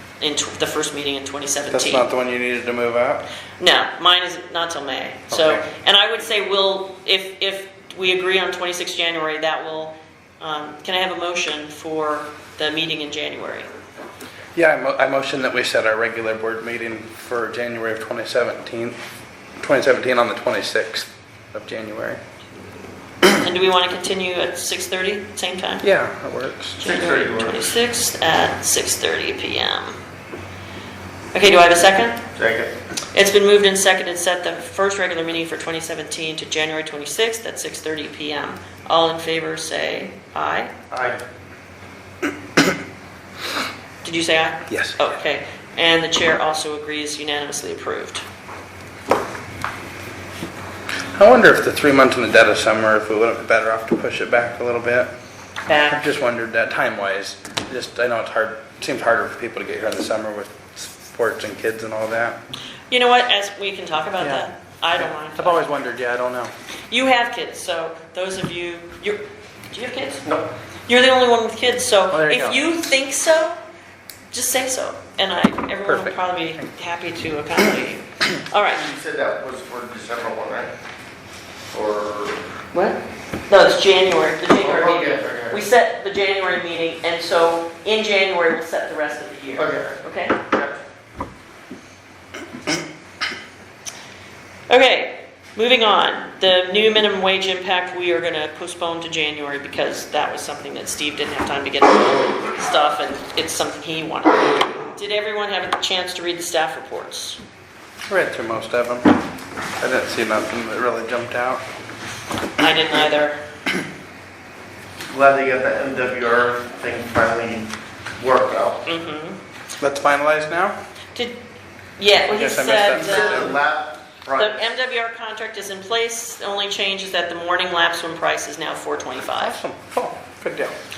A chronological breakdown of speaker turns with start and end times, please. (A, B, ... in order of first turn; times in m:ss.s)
0:00.2-0:02.1 A
0:01.7-0:03.3 B
0:03.6-0:13.7 A
0:05.3-0:05.6 B
0:14.5-0:19.0 B
0:19.6-0:22.2 B
0:23.2-0:25.8 A
0:25.8-0:26.8 B
0:26.8-0:30.0 A
0:26.8-0:27.7 C
0:31.3-0:32.2 A
0:32.4-0:32.7 C
0:33.1-0:40.7 A
0:40.9-0:41.2 C
0:44.0-0:48.2 A
0:44.7-0:45.0 B
0:51.2-0:55.1 B
0:55.7-0:56.0 A
0:55.9-1:02.4 B
1:02.9-1:05.7 A
1:04.2-1:04.5 B
1:05.0-1:06.5 B
1:06.9-1:10.3 A
1:10.9-1:13.6 A
1:12.1-1:12.7 B
1:14.3-1:18.9 A
1:15.8-1:16.2 B
1:18.7-1:20.7 C
1:21.7-1:22.4 C
1:22.7-1:30.4 A
1:24.6-1:25.6 C
1:29.5-1:30.0 C
1:30.5-1:30.8 C
1:34.7-1:47.4 A
1:48.1-1:49.2 B
1:49.8-1:51.6 B
1:52.6-1:53.4 A
1:55.1-1:58.8 C
1:58.8-1:59.4 A
1:59.8-2:00.8 B
2:02.0-2:03.6 A
2:02.3-2:03.6 B
2:03.0-2:04.6 C
2:04.4-2:09.6 A
2:09.3-2:10.7 B